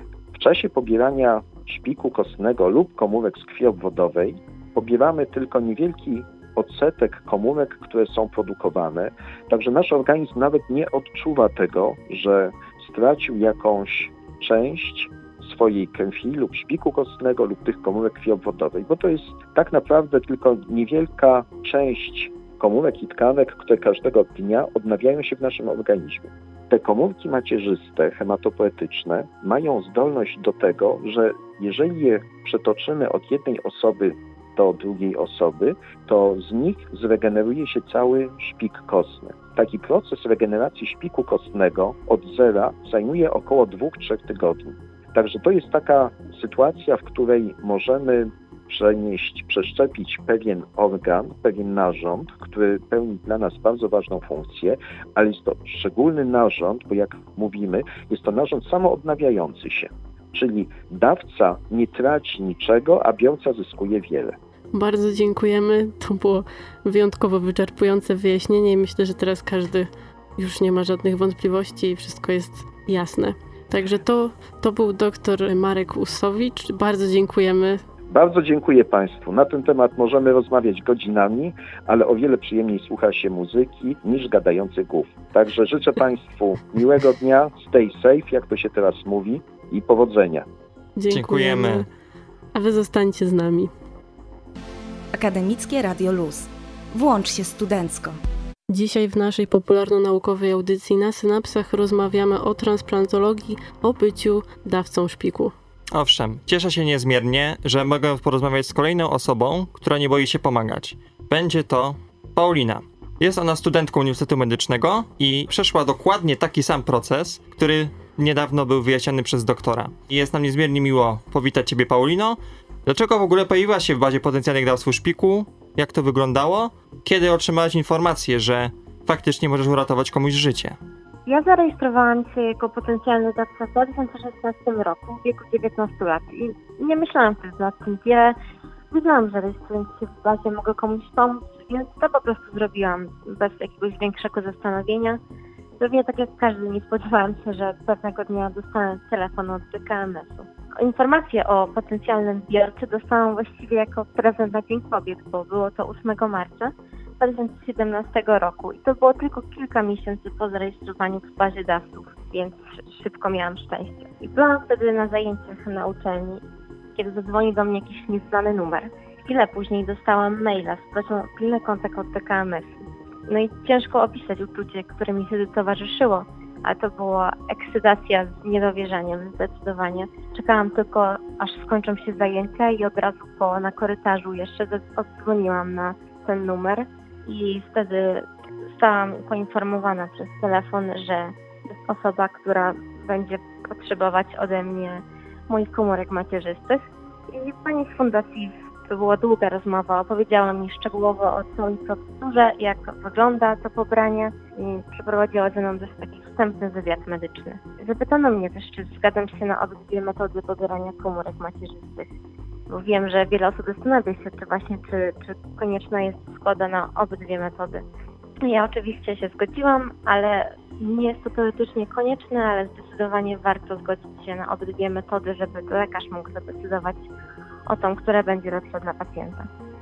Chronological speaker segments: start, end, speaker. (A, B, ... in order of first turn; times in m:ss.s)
0:00.4-1:04.4 A
1:04.7-1:17.8 B
1:18.1-1:30.5 A
1:31.0-1:31.9 B
1:31.1-1:31.9 C
1:32.6-1:33.7 B
1:35.1-1:38.2 D
1:38.7-1:45.5 B
1:45.9-2:10.8 C
2:11.3-2:18.4 E
2:18.9-2:25.2 E
2:25.8-2:46.4 E
2:47.0-3:32.1 E
3:32.7-3:37.8 E
3:38.4-3:47.1 E
3:47.7-3:49.5 E